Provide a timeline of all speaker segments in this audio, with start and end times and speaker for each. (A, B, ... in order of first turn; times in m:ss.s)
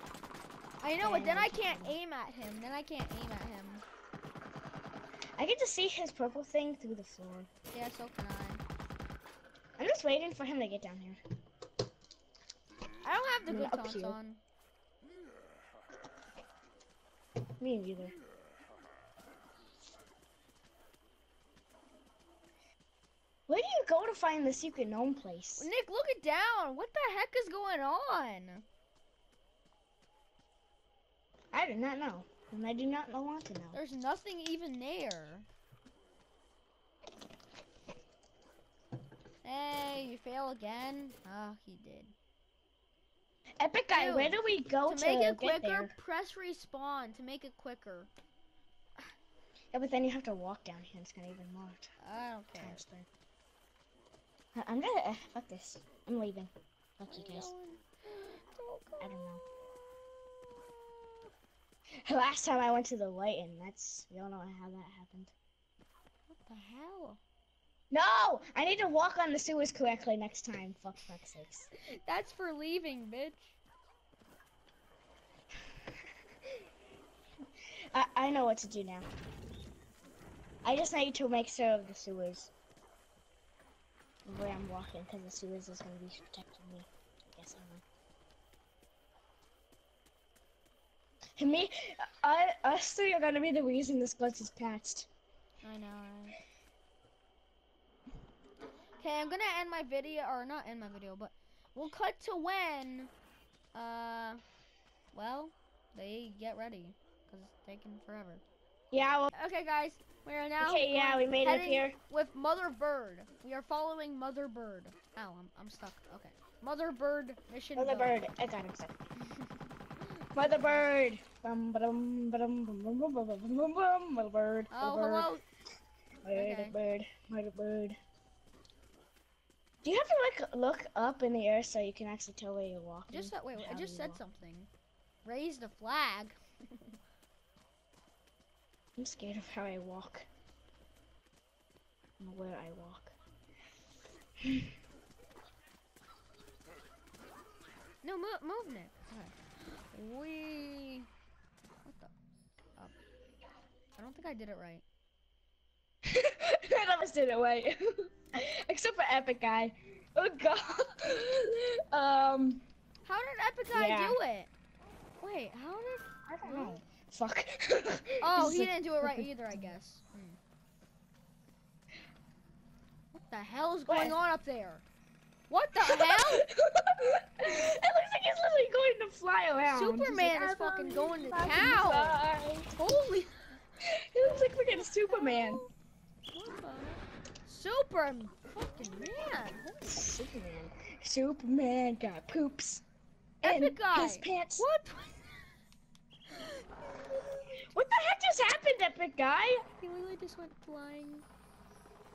0:00.8-0:03.8 A
0:01.0-0:02.0 B
0:05.4-0:07.5 B
0:07.7-0:08.6 A
0:09.8-0:11.2 B
0:13.0-0:14.4 A
0:13.5-0:14.2 B
0:17.6-0:18.2 B
0:23.5-0:25.7 B
0:25.6-0:28.6 A
0:31.5-0:33.8 B
0:33.7-0:35.5 A
0:39.4-0:42.1 A
0:43.6-0:45.9 B
0:43.9-0:48.1 A
0:49.7-0:51.9 B
0:52.0-0:52.8 A
0:52.6-0:53.1 B
0:54.6-0:57.5 B
0:57.1-0:59.1 A
0:59.0-0:59.4 B
1:00.6-1:01.3 A
1:02.0-1:05.3 B
1:06.3-1:07.2 A
1:07.9-1:11.7 B
1:11.9-1:13.6 A
1:17.9-1:19.1 B
1:20.6-1:22.5 B
1:24.3-1:27.8 B
1:31.4-1:35.1 B
1:35.6-1:36.4 A
1:39.0-1:43.1 A
1:43.7-1:44.4 A
1:45.1-1:48.4 A
1:48.9-1:49.3 B
1:49.3-1:58.2 A
1:50.6-1:52.0 B
1:57.8-1:59.0 B
2:00.4-2:05.3 B
2:00.4-2:00.8 A
2:04.7-2:05.4 A
2:06.2-2:08.0 B
2:06.3-2:06.8 A
2:09.8-2:14.2 B
2:13.1-2:14.7 A
2:15.2-2:16.4 A
2:19.0-2:20.3 B
2:22.2-2:23.2 B
2:24.4-2:24.7 B
2:28.0-2:31.1 A
2:31.8-2:32.1 A
2:34.0-2:34.8 A
2:36.1-2:42.6 B
2:43.0-2:44.5 A
2:43.7-2:44.2 B
2:45.2-2:46.8 A
2:46.3-2:49.7 B
2:48.2-2:50.4 A
2:53.1-2:54.8 A
2:53.9-2:54.2 B
2:55.5-2:56.4 A
2:55.9-3:02.8 B
2:59.6-3:02.2 A
3:02.8-3:03.3 A
3:03.9-3:05.6 B
3:04.7-3:05.7 A
3:06.3-3:10.0 A
3:09.8-3:12.8 B
3:13.4-3:14.7 B
3:13.4-3:15.2 A
3:16.3-3:17.6 A
3:17.7-3:19.6 B
3:19.8-3:21.2 A